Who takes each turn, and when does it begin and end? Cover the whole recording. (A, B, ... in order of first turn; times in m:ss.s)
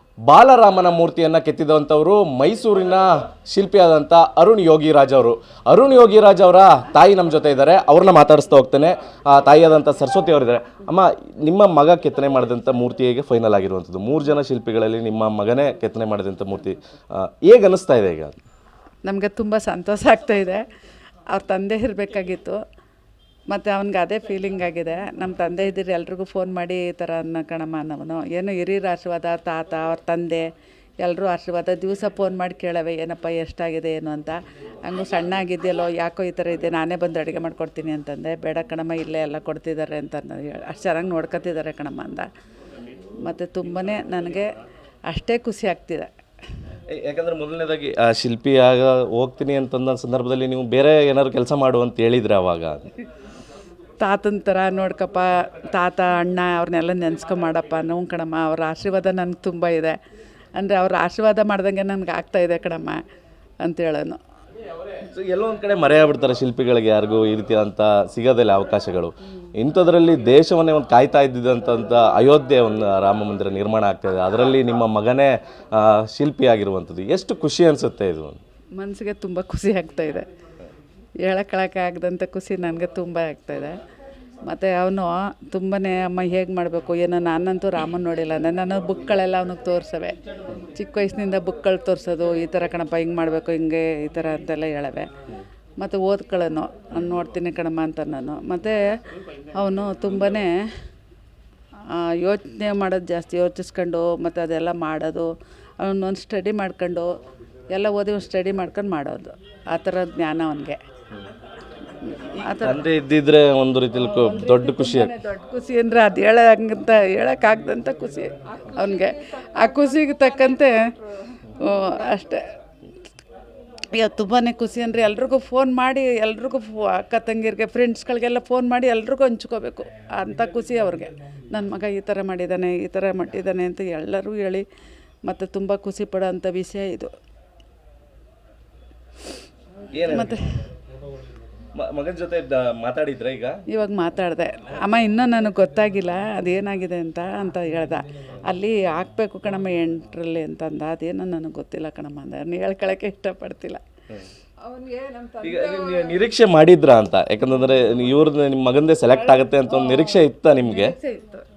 0:00.2-0:18.4 A
0:19.0-0:20.6 B
0:21.3-0:22.6 B
0:23.5-0:30.5 B
0:31.0-0:42.3 B
0:43.2-0:44.5 B
0:45.1-0:46.1 B
0:46.9-0:52.9 A
0:54.0-1:00.0 B
1:00.5-1:03.0 B
1:03.6-1:04.2 B
1:05.1-1:18.4 A
1:18.8-1:20.3 B
1:21.2-1:23.8 B
1:24.4-1:30.2 B
1:30.7-1:35.1 B
1:35.8-1:38.9 B
1:39.5-1:40.5 B
1:41.9-1:45.3 B
1:45.8-1:47.1 B
1:47.7-1:50.8 B
1:52.0-1:52.9 B
1:52.6-1:55.1 A
1:54.0-2:02.5 B
2:03.9-2:14.6 B
2:15.2-2:17.1 B
2:19.9-2:20.4 A
2:20.1-2:20.7 B
2:21.7-2:23.6 A
2:23.7-2:33.8 B
2:34.6-2:35.4 B
2:35.4-2:40.9 A
2:39.1-2:41.4 B